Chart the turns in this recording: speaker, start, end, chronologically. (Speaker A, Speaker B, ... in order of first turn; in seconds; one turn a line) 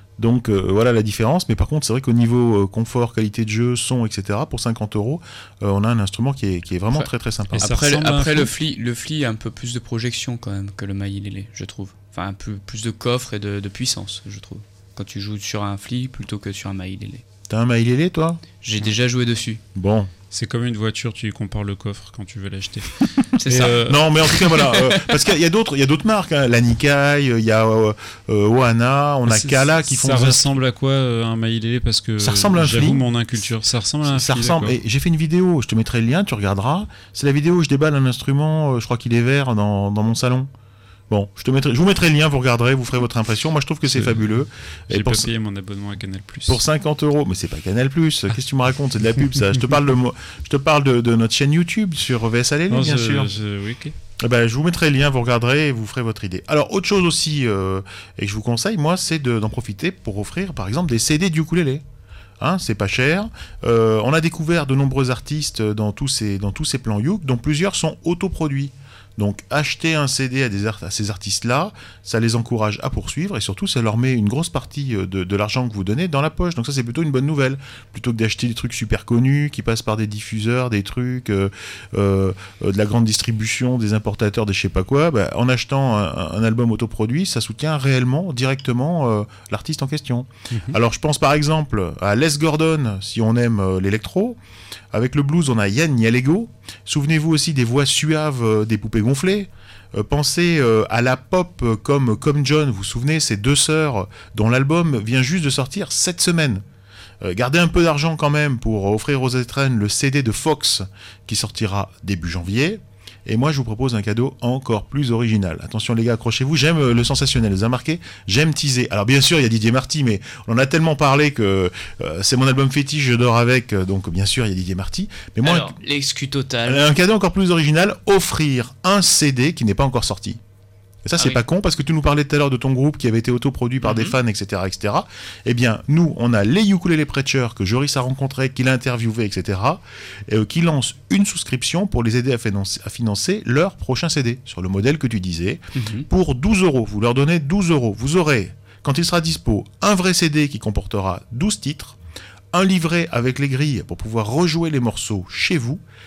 Speaker A: 0.2-7.7
Speaker B: 7.5-8.5
Speaker C: 7.6-17.2
Speaker A: 17.5-18.4
Speaker C: 18.6-19.6
Speaker A: 19.7-20.1
Speaker B: 20.3-25.0
Speaker C: 23.4-23.8
Speaker A: 23.6-30.5
Speaker B: 29.2-34.8
Speaker A: 32.2-33.1
Speaker A: 34.0-40.5
Speaker A: 41.1-45.3
Speaker B: 43.9-46.6
Speaker A: 46.5-53.3
Speaker B: 52.7-53.9
Speaker A: 54.2-61.8
Speaker A: 62.4-94.4
Speaker A: 94.9-106.6
Speaker A: 107.2-125.7
Speaker C: 125.4-126.8
Speaker A: 126.6-130.4
Speaker A: 131.0-152.0
Speaker C: 133.8-134.2
Speaker C: 145.7-146.1
Speaker A: 152.5-155.8